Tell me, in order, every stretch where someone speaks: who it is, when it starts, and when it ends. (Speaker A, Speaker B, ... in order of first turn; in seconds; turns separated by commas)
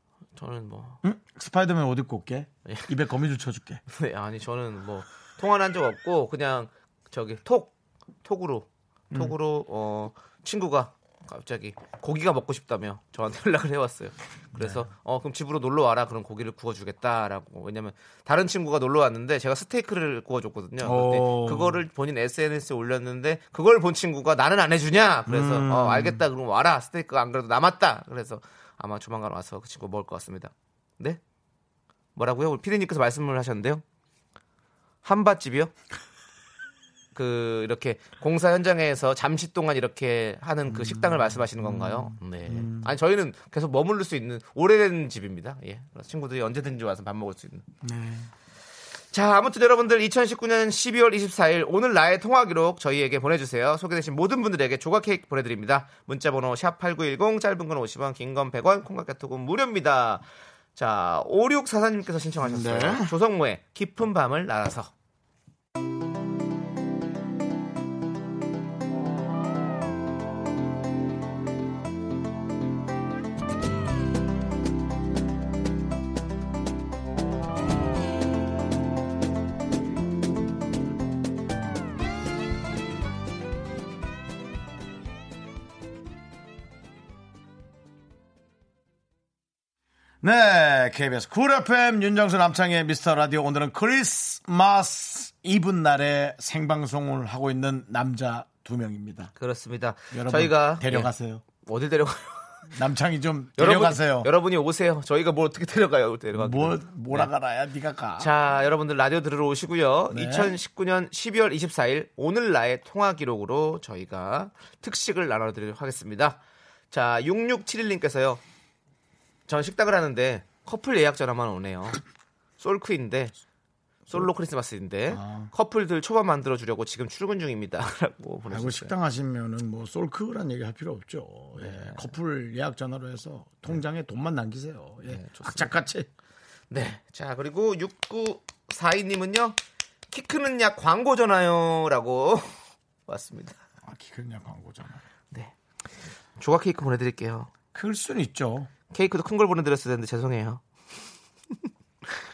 Speaker A: 0.4-1.0, Speaker B: 1.0-3.8, Speaker A: 3.9-31.2, Speaker B: 14.6-14.9, Speaker B: 20.8-21.8, Speaker B: 25.3-26.2, Speaker A: 32.2-33.8, Speaker A: 35.0-35.7, Speaker A: 37.1-47.7, Speaker B: 40.7-42.9, Speaker B: 47.8-48.3, Speaker A: 49.1-64.9, Speaker B: 62.4-63.1, Speaker B: 90.2-99.3, Speaker A: 99.4-101.1, Speaker B: 100.1-101.4, Speaker A: 101.6-102.7, Speaker B: 102.7-104.3, Speaker A: 103.6-107.3, Speaker B: 106.3-108.3, Speaker A: 108.2-116.4, Speaker B: 110.1-110.6, Speaker A: 116.9-118.4, Speaker A: 119.5-122.0, Speaker A: 122.6-123.3, Speaker A: 124.1-128.9, Speaker B: 125.1-125.5, Speaker B: 128.5-136.1, Speaker A: 131.6-132.1, Speaker A: 135.0-135.8, Speaker A: 136.7-139.6, Speaker A: 140.1-143.6, Speaker B: 143.8-145.0, Speaker A: 146.4-147.5, Speaker B: 147.7-148.7, Speaker A: 148.9-150.6